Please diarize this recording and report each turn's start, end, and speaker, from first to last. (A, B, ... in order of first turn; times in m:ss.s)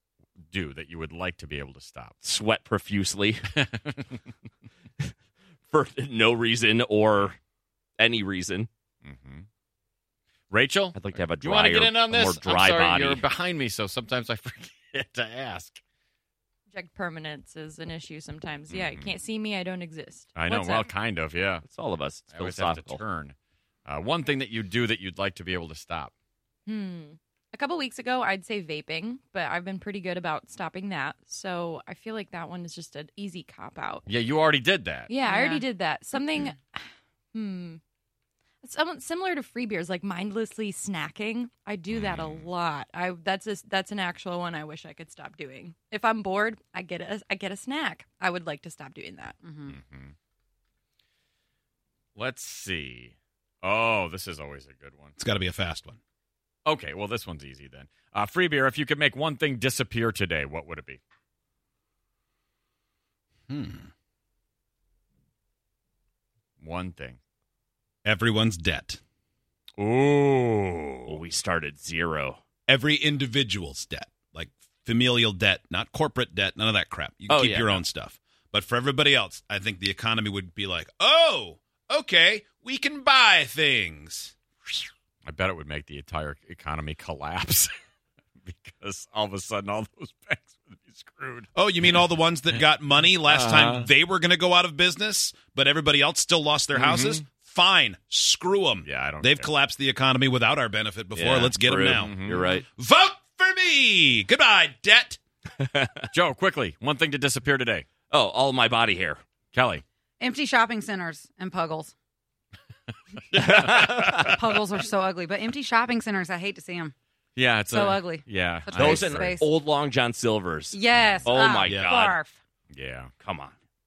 0:00.4-0:02.2 A
0:02.2-0:03.5 B
0:03.6-0:04.2 A
0:05.7-0:07.4 B
0:08.0-0:08.7 B
0:09.0-0:09.4 A
0:10.5-0:15.8 A
0:10.9-0:13.2 B
0:16.7-0:20.9 C
0:18.7-0:19.1 A
0:20.4-0:21.6 A
0:21.6-0:23.0 B
0:22.3-0:23.3 A
0:23.8-0:26.1 A
0:26.7-0:34.0 C
0:34.0-0:35.1 A
0:35.1-0:37.8 C
0:35.2-0:35.6 D
0:38.6-0:49.4 C
0:41.9-0:42.5 A
0:49.4-0:49.7 D
0:49.7-0:50.1 A
0:52.2-0:55.2 A
0:55.2-0:56.0 E
0:56.6-1:01.0 A
1:03.5-1:03.7 E
1:06.6-1:07.2 A
1:08.0-1:09.0 E
1:09.8-1:11.2 A
1:11.1-1:12.4 B
1:12.7-1:24.3 E
1:17.3-1:17.8 B
1:25.2-1:27.7 A
1:28.4-1:32.6 A
1:31.6-1:42.1 E
1:33.2-1:33.9 A
1:36.7-1:37.2 A
1:38.8-1:39.5 A
1:41.1-1:42.6 B
1:42.0-1:42.5 A
1:42.7-1:45.2 E
1:45.6-1:46.0 B
1:46.1-1:47.8 A
1:48.1-1:49.2 B
1:49.5-1:49.8 A
1:50.2-1:51.9 D
1:53.3-1:54.4 B
1:53.3-1:54.2 A
1:54.2-1:56.9 D
1:57.4-1:59.4 A
1:57.7-1:59.5 D
1:58.8-2:02.2 B
2:00.7-2:02.4 D
2:02.7-2:03.1 A
2:03.2-2:03.5 B